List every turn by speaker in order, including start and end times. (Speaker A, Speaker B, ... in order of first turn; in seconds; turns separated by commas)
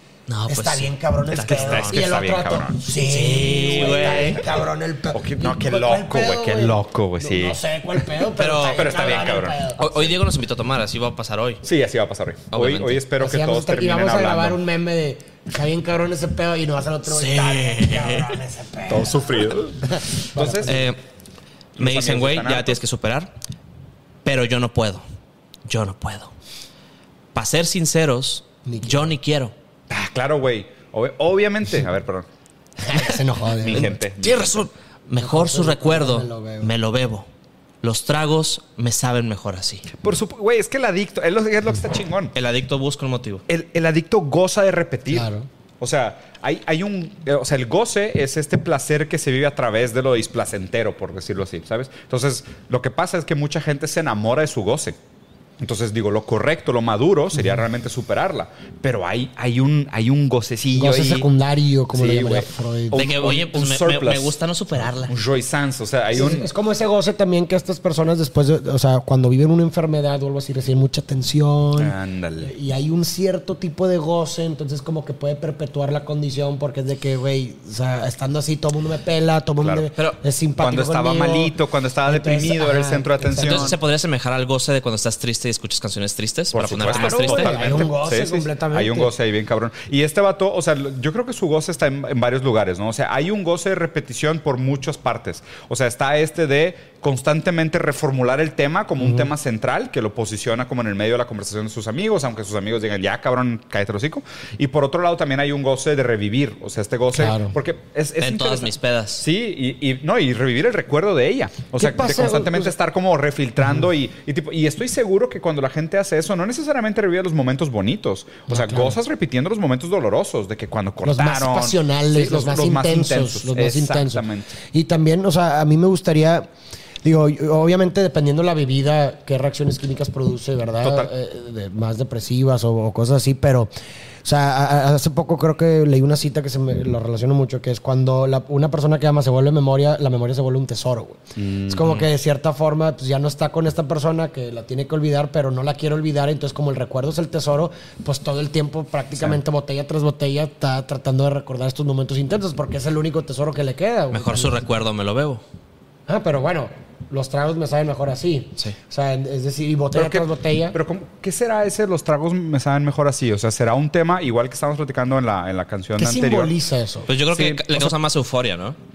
Speaker A: 0.3-2.0, Speaker B: 0.5-10.2, Speaker C: 1.5-2.9, Speaker A: 2.9-4.4, Speaker C: 3.7-4.5, Speaker C: 5.1-7.6, Speaker A: 8.3-11.6, Speaker C: 8.6-9.6, Speaker C: 11.6-14.6, Speaker A: 12.5-13.0, Speaker B: 13.2-20.9, Speaker A: 17.1-18.4, Speaker C: 18.9-20.9, Speaker A: 20.6-21.0, Speaker C: 21.8-22.8, Speaker A: 21.8-23.3, Speaker A: 24.2-25.0, Speaker A: 25.6-26.3, Speaker A: 27.3-29.5, Speaker B: 28.6-29.1, Speaker C: 29.9-32.3, Speaker B: 32.8-34.0, Speaker C: 33.6-34.7, Speaker A: 33.7-37.3, Speaker B: 35.1-36.7, Speaker A: 37.8-39.9, Speaker C: 39.9-42.3, Speaker A: 42.3-43.4, Speaker C: 43.5-45.3, Speaker B: 45.1-45.5, Speaker C: 45.8-55.0, Speaker C: 55.6-61.3, Speaker B: 60.7-63.0, Speaker C: 61.9-64.4, Speaker A: 62.9-65.1, Speaker C: 65.0-66.5, Speaker B: 66.1-83.8, Speaker C: 71.8-72.5, Speaker C: 79.6-79.9, Speaker C: 80.6-83.8, Speaker A: 83.4-87.8, Speaker C: 86.5-124.6, Speaker B: 86.9-89.1, Speaker B: 99.0-99.3, Speaker B: 107.1-107.6, Speaker A: 108.2-109.2, Speaker B: 111.8-112.7, Speaker B: 118.5-119.0, Speaker B: 121.0-126.5, Speaker B: 127.0-133.7, Speaker C: 130.8-131.1, Speaker B: 134.2-154.6, Speaker C: 141.3-141.9, Speaker A: 154.1-155.4, Speaker B: 156.1-160.8, Speaker C: 159.9-166.5, Speaker B: 166.0-167.1, Speaker A: 167.1-168.8, Speaker C: 167.3-167.9